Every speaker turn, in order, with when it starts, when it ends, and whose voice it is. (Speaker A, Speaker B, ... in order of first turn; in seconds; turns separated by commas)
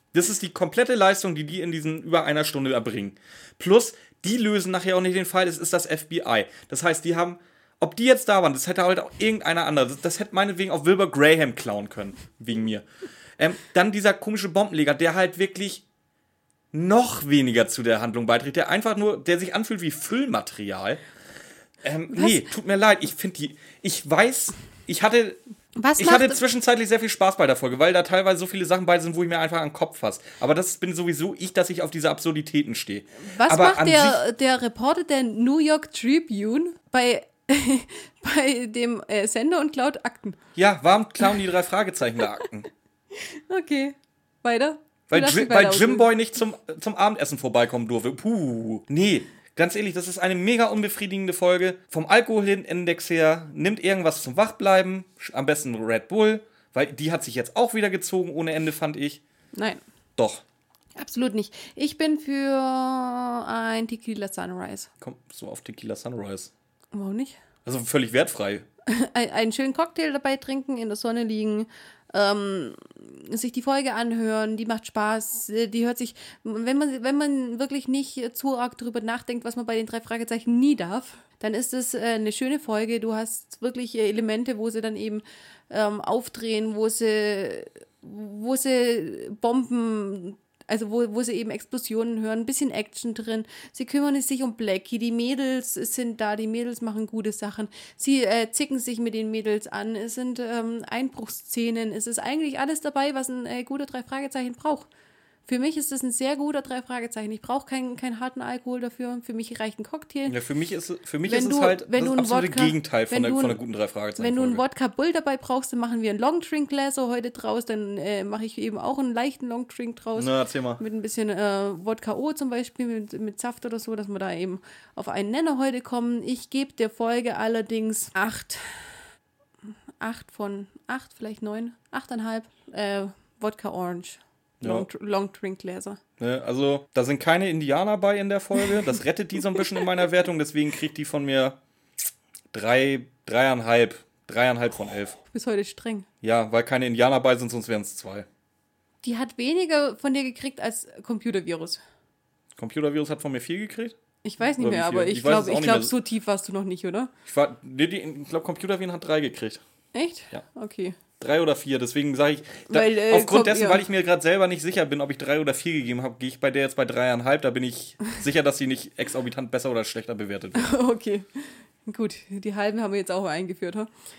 Speaker A: 0.1-12.8, Speaker A: 13.4-15.8, Speaker A: 16.7-21.0, Speaker A: 21.8-25.4, Speaker B: 22.1-22.4, Speaker B: 25.8-26.4, Speaker A: 26.0-34.2, Speaker B: 33.2-40.4, Speaker A: 40.5-42.7, Speaker B: 43.1-46.1, Speaker A: 45.1-59.2, Speaker B: 59.5-59.8, Speaker A: 60.2-60.4, Speaker B: 61.0-64.9, Speaker A: 65.0-66.5, Speaker B: 66.9-67.4, Speaker A: 67.6-68.7, Speaker B: 68.9-104.9, Speaker B: 105.5-110.4, Speaker A: 110.2-114.6, Speaker B: 111.2-113.6, Speaker B: 114.2-128.9, Speaker A: 120.2-120.8, Speaker B: 130.0-136.0, Speaker A: 134.6-134.9, Speaker A: 136.2-141.6, Speaker A: 142.5-145.2, Speaker B: 145.3-146.1, Speaker A: 146.2-148.3, Speaker B: 149.0-151.8, Speaker A: 152.6-155.9, Speaker B: 154.2-157.1, Speaker A: 157.2-159.6, Speaker B: 159.9-161.0, Speaker A: 161.2-170.7, Speaker B: 162.7-163.8, Speaker B: 170.5-173.9